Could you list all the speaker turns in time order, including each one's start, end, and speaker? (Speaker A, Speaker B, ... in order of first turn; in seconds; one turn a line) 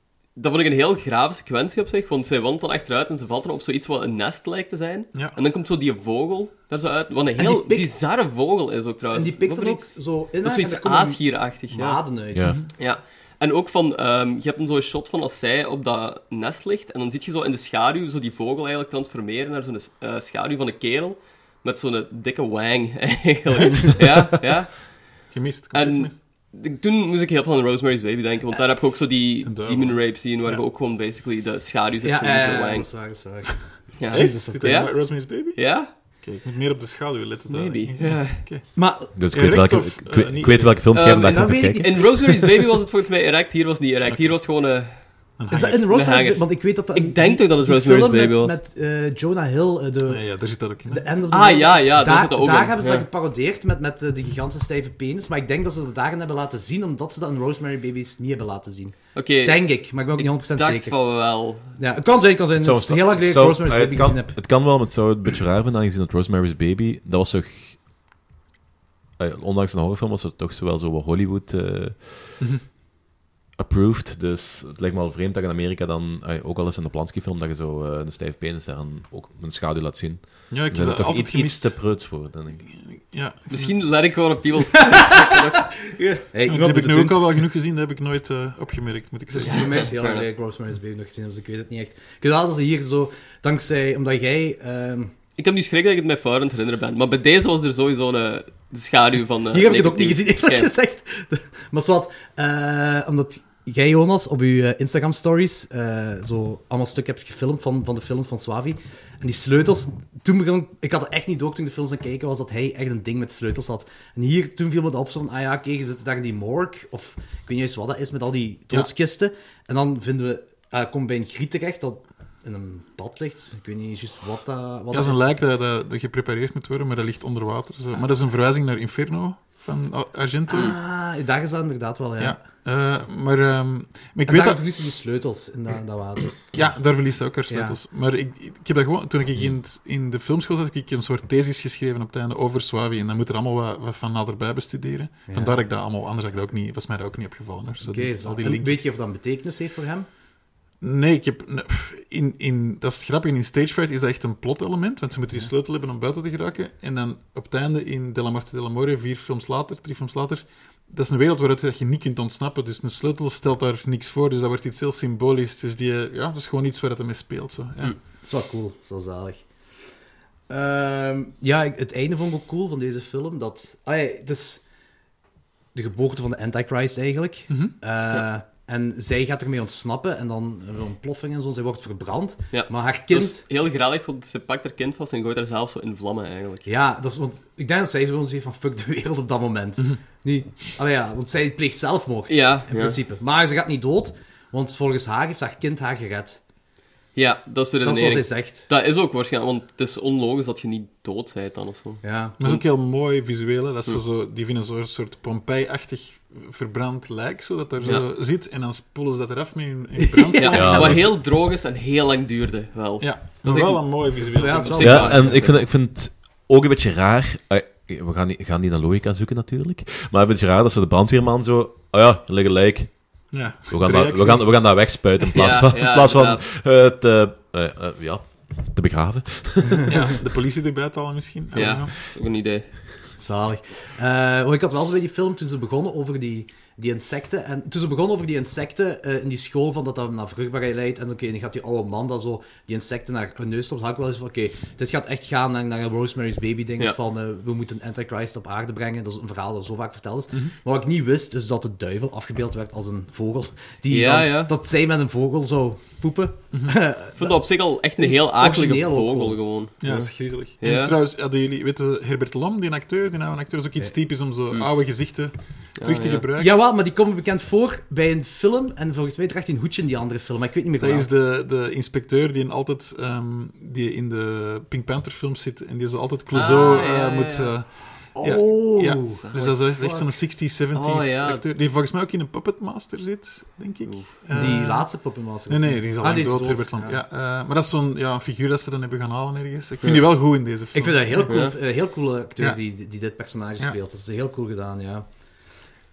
Speaker A: 0.3-12.1
Speaker B: 7.4-8.0
Speaker B: 9.1-12.6
Speaker C: 12.3-12.6
Speaker A: 12.7-32.9
Speaker D: 25.3-26.1
Speaker D: 29.4-30.6
Speaker B: 32.0-34.9
Speaker A: 34.0-35.9
Speaker D: 34.1-41.0
Speaker A: 37.5-38.5
Speaker B: 38.7-39.1
Speaker C: 39.1-42.4
Speaker A: 40.9-48.5
Speaker B: 41.2-42.4
Speaker D: 44.1-44.4
Speaker D: 45.4-45.8
Speaker B: 45.5-61.0
Speaker D: 50.1-51.0
Speaker A: 51.3-53.0
Speaker A: 59.1-61.7
Speaker B: 61.7-64.7
Speaker C: 62.5-67.8
Speaker C: 69.2-72.4
Speaker C: 73.5-82.7
Speaker D: 80.5-83.8
Speaker A: 83.5-85.8
Speaker B: 84.9-87.4
Speaker D: 86.5-89.7
Speaker B: 89.3-95.1
Speaker A: 89.4-90.2
Speaker A: 95.4-100.7
Speaker B: 99.5-125.3
Speaker D: 124.9-130.8
Speaker B: 130.5-132.4
Speaker D: 132.2-134.6
Speaker B: 134.2-136.5
Speaker D: 136.5-148.8
Speaker B: 137.5-137.8
Speaker B: 145.3-145.6
Speaker B: 147.8-150.1
Speaker D: 150.8-167.9
Speaker B: 168.2-169.5
Speaker B: 170.5-174.6
Speaker B: 175.7-183.4
Speaker A: 182.5-186.7
Speaker B: 186.7-196.4
Speaker A: 192.3-193.0
Speaker A: 197.1-202.6
Speaker B: 197.8-198.7
Speaker B: 202.0-202.4
Speaker D: 202.4-211.2
Speaker B: 210.0-210.7
Speaker A: 210.4-215.6
Speaker C: 210.5-211.1
Speaker D: 213.0-215.2
Speaker B: 214.3-215.6
Speaker C: 214.8-229.9
Speaker D: 223.3-224.5
Speaker A: 225.2-226.4
Speaker D: 229.9-231.9
Speaker A: 231.5-232.8
Speaker B: 233.2-259.4
Speaker A: 253.9-254.5
Speaker D: 256.5-256.8
Speaker A: 257.1-260.9
Speaker D: 259.8-266.6
Speaker A: 265.8-266.3
Speaker B: 266.4-271.1
Speaker D: 270.8-284.9
Speaker A: 276.3-277.7
Speaker B: 278.1-280.1
Speaker A: 279.1-279.6
Speaker A: 280.7-281.5
Speaker A: 283.8-284.5
Speaker B: 284.3-287.0
Speaker D: 285.5-291.5
Speaker B: 290.7-295.1
Speaker A: 291.3-291.5